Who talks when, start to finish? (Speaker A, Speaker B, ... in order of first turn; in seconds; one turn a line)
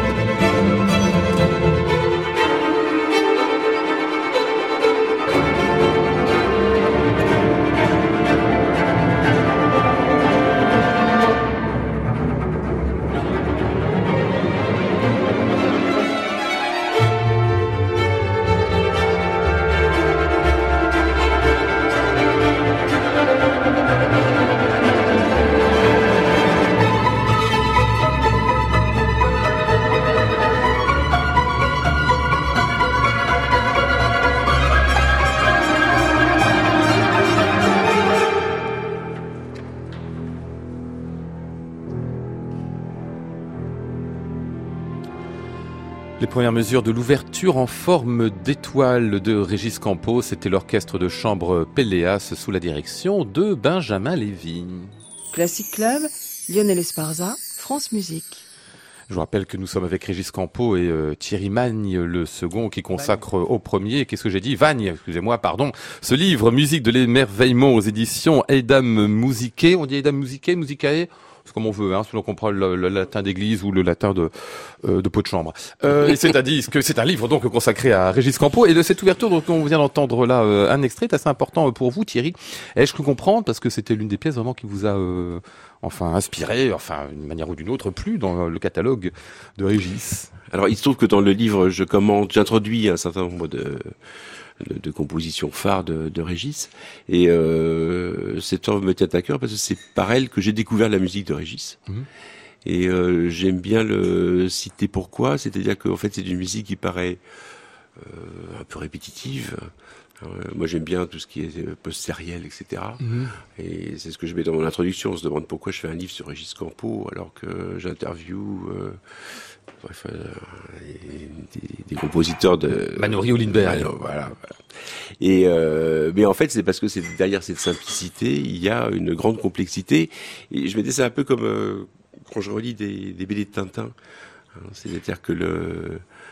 Speaker A: 46.2-54.9
Speaker B: 55.3-58.4
Speaker A: 59.1-90.3
Speaker C: 90.5-101.8
Speaker C: 102.7-107.2
Speaker C: 108.0-133.9
Speaker A: 113.0-113.4
Speaker A: 122.9-124.0
Speaker C: 134.6-136.0